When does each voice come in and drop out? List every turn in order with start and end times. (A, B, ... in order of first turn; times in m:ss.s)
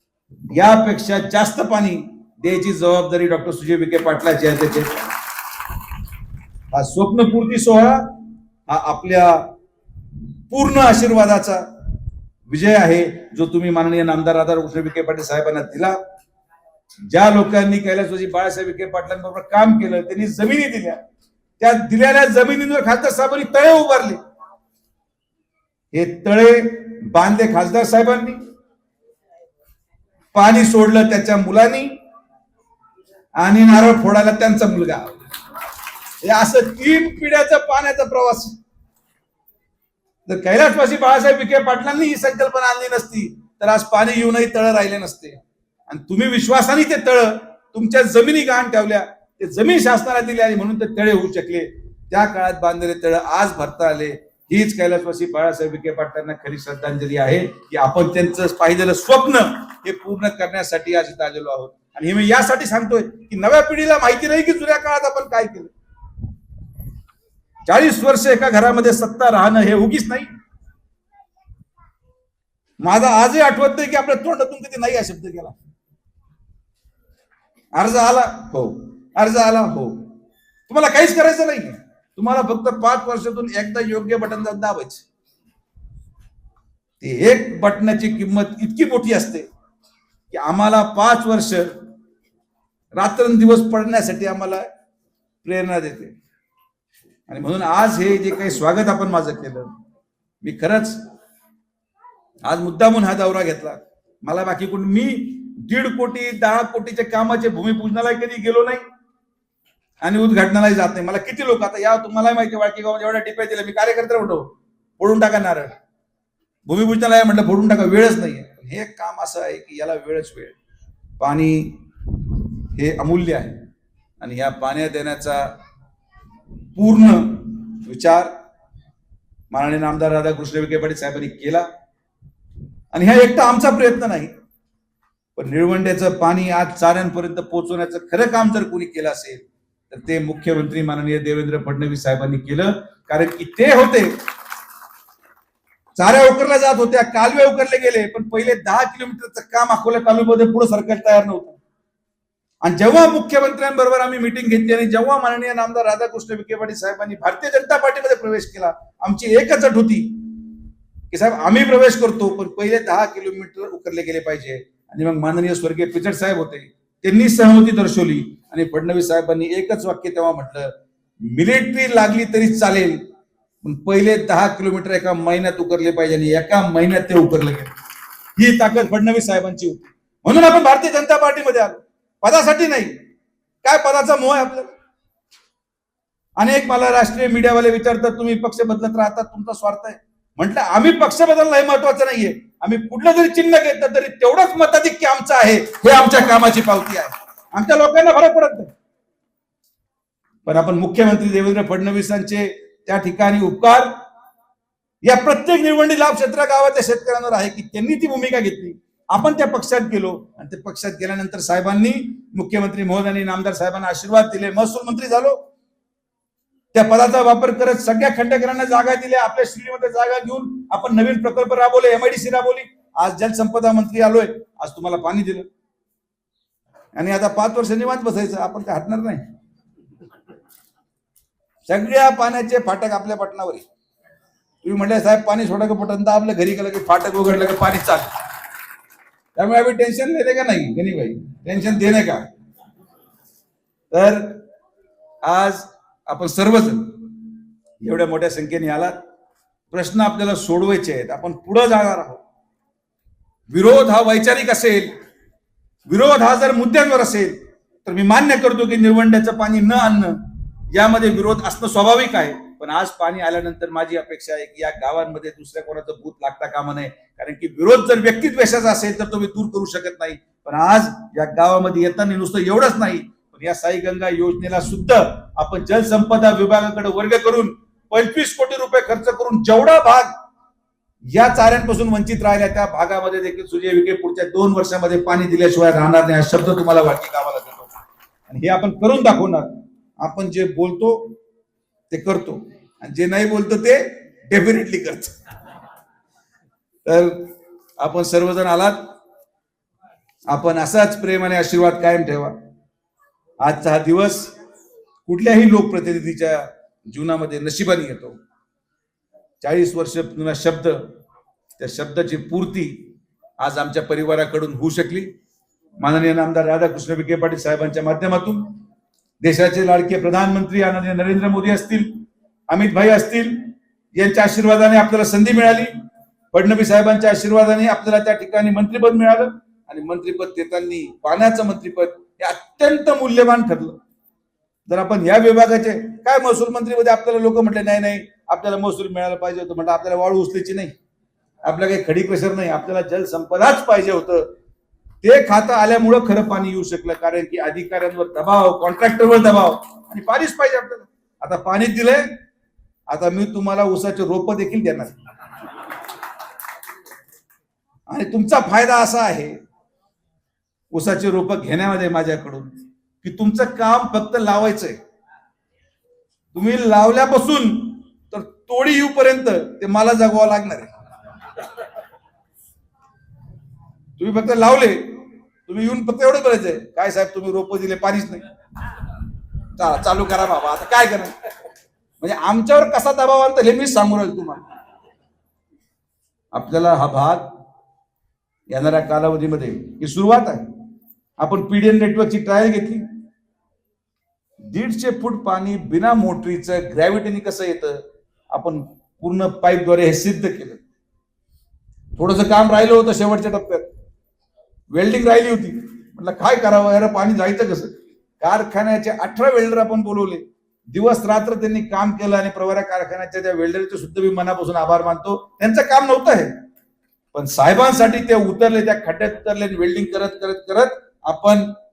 0:00.5-0:05.1 A
0:06.7-0:09.5 A
0:10.5-0:11.6 A
0:12.5-0:16.0 A
0:17.1-0:21.0 A
0:21.6-0:24.2 A
0:25.9-0:28.4 A
0:30.3-0:31.9 A
0:33.4-0:35.2 A
0:36.2-0:38.6 A
0:40.2-1:05.7 A
1:07.7-1:10.3 A
1:12.8-1:15.5 A
1:17.7-1:20.1 A
1:20.7-1:25.0 A
1:27.0-1:29.5 A
1:30.3-1:31.8 A
1:32.9-1:34.6 A
1:35.4-1:36.1 A
1:37.3-1:39.7 A
1:40.4-1:41.0 A
1:42.4-1:48.8 A
1:50.0-1:54.4 A
1:55.0-1:55.7 A
1:56.6-2:00.5 A
2:01.2-2:01.8 A
2:02.7-2:03.6 A
2:04.2-2:05.5 A
2:06.7-2:08.3 A
2:09.5-2:11.7 A
2:12.9-2:14.3 A
2:15.4-2:24.1 A
2:26.0-2:31.6 A
2:32.6-2:40.5 A
2:41.1-2:50.7 A
2:51.3-2:53.0 A
2:53.6-2:57.7 A
2:58.4-3:02.9 A
3:03.6-3:04.7 A
3:06.4-3:18.7 A
3:20.4-3:23.9 A
3:25.0-3:35.4 A
3:36.7-3:45.5 A
3:46.9-3:49.2 A
3:51.6-3:53.6 A
3:54.6-3:58.1 A
3:59.4-4:02.2 A
4:03.9-4:04.4 A
4:05.2-4:08.9 A
4:09.7-4:12.2 A
4:13.5-4:14.9 A
4:15.8-4:40.1 A
4:41.1-4:47.7 A
4:48.3-4:51.2 A
4:51.9-4:55.2 A
4:56.8-4:58.9 A
5:00.3-5:02.4 A
5:03.4-5:04.3 A
5:05.0-5:08.2 A
5:09.4-5:10.9 A
5:11.6-5:15.1 A
5:15.8-5:18.6 A
5:19.2-5:25.7 A
5:26.3-5:33.8 A
5:34.7-5:40.7 A
5:41.4-5:44.3 A
5:45.0-5:52.2 A
5:52.9-5:54.9 A
5:57.9-5:59.4 A
6:00.7-6:02.5 A
6:03.0-6:04.8 A
6:06.3-6:10.7 A
6:14.0-6:18.2 A
6:19.6-6:21.1 A
6:22.0-6:24.4 A
6:26.3-6:27.3 A
6:28.5-6:30.4 A
6:31.2-6:32.8 A
6:34.4-6:37.8 A
6:38.3-6:40.6 A
6:42.0-6:43.7 A
6:44.7-6:56.3 A
6:57.1-7:01.6 A